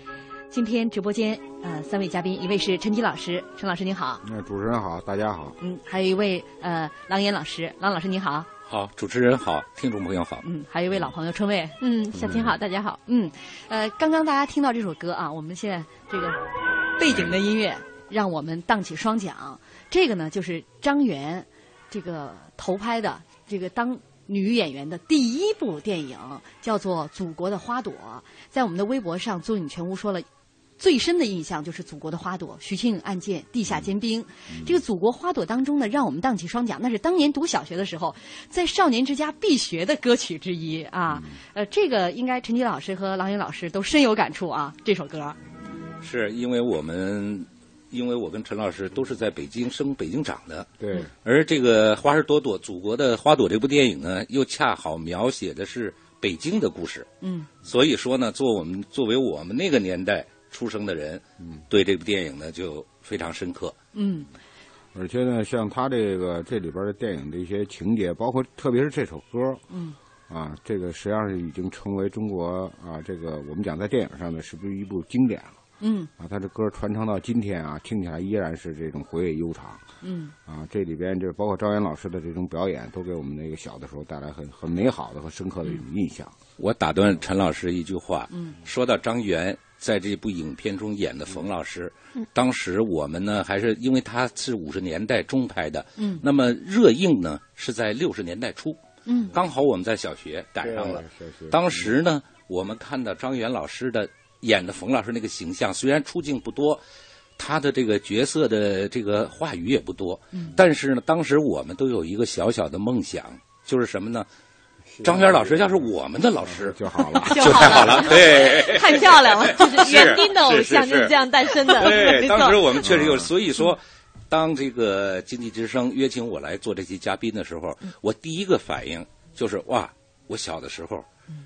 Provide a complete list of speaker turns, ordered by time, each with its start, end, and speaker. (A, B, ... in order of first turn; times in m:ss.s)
0:00.5-0:04.2 A
0:04.2-0:05.6 B
0:05.6-0:08.5 A
0:08.7-0:10.4 C
0:10.4-0:11.8 A
0:11.8-0:13.0 D
0:12.1-0:12.6 B
0:13.1-0:16.4 A
0:17.0-0:30.3 A
0:30.8-0:45.4 A
0:34.5-0:34.8 B
0:41.1-0:41.4 B
0:46.0-0:50.7 C
0:50.8-0:51.1 B
0:51.2-0:57.1 C
0:57.2-0:57.5 A
0:57.6-1:03.8 C
1:04.0-1:04.3 A
1:04.9-1:09.6 B
1:09.7-1:10.0 A
1:10.3-1:15.6 B
1:15.8-1:16.1 A
1:16.2-1:19.8 B
1:20.0-1:20.3 A
1:20.5-1:26.4 B
1:26.6-1:38.8 C
1:36.0-1:36.2 A
1:39.1-1:39.3 A
1:39.3-1:46.8 C
1:40.6-1:41.9 B
1:47.4-1:54.3 C
1:54.9-1:55.9 B
1:55.0-2:11.1 C
1:56.4-1:58.1 B
1:57.3-2:00.2 A
1:58.7-2:02.8 D
2:02.8-2:03.3 B